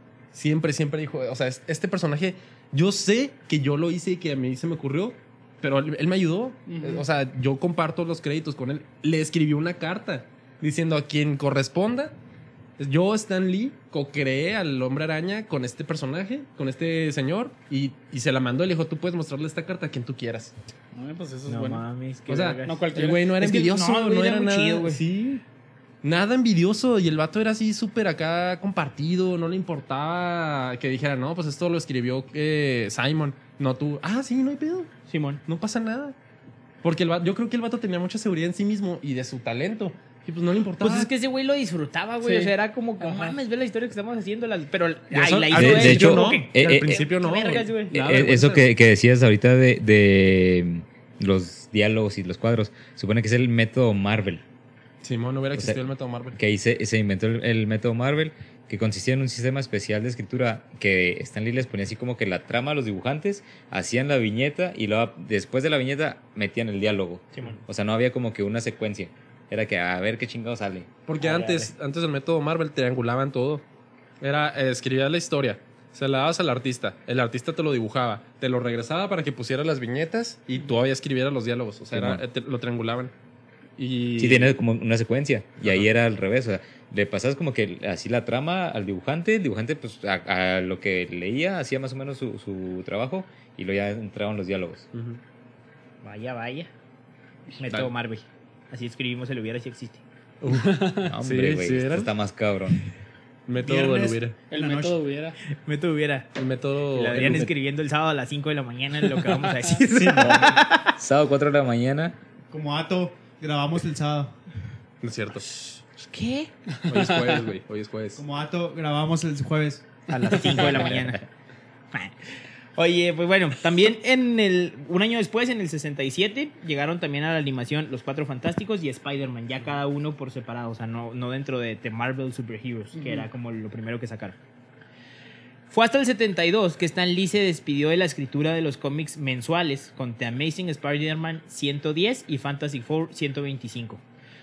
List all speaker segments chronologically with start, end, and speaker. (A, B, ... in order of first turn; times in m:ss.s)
0:00.3-0:12.2 A
0:06.7-0:07.0 B
0:12.8-0:20.5 A
0:20.9-0:21.9 B
0:21.5-0:25.0 C
0:22.3-0:25.4 A
0:22.6-0:23.3 B
0:26.0-0:34.9 A
0:35.1-0:35.4 C
0:35.4-0:36.2 A
0:36.8-0:41.1 A
0:40.8-0:47.9 C
0:42.2-0:43.4 B
0:45.1-0:48.7 A
0:45.5-0:47.0 D
0:47.9-0:54.4 D
0:55.0-0:56.4 A
0:56.4-1:10.9 D
1:07.3-1:07.6 C
1:11.1-1:13.6 A
1:11.2-1:11.7 C
1:14.2-1:23.1 A
1:21.9-1:22.2 D
1:23.8-1:24.6 A
1:24.2-1:34.9 D
1:25.6-1:25.9 A
1:34.9-1:35.2 A
1:36.0-1:36.7 C
1:37.6-1:40.0 C
1:37.7-1:37.9 D
1:40.4-1:42.1 A
1:40.5-1:41.1 B
1:41.1-1:42.8 D
1:43.5-1:44.4 A
1:43.6-1:45.0 E
1:44.5-1:45.4 B
1:45.5-1:46.3 C
1:46.4-1:47.5 A
1:46.9-1:51.0 C
1:51.0-1:52.2 D
1:52.5-1:54.4 E
1:55.0-1:55.7 A
1:56.0-1:56.5 C
1:56.8-1:58.2 A
1:58.2-1:59.9 E
2:00.1-2:01.2 C
2:00.3-2:00.6 B
2:00.7-2:01.2 D
2:02.8-2:14.4 C
2:13.0-2:13.3 B
2:15.7-2:24.0 C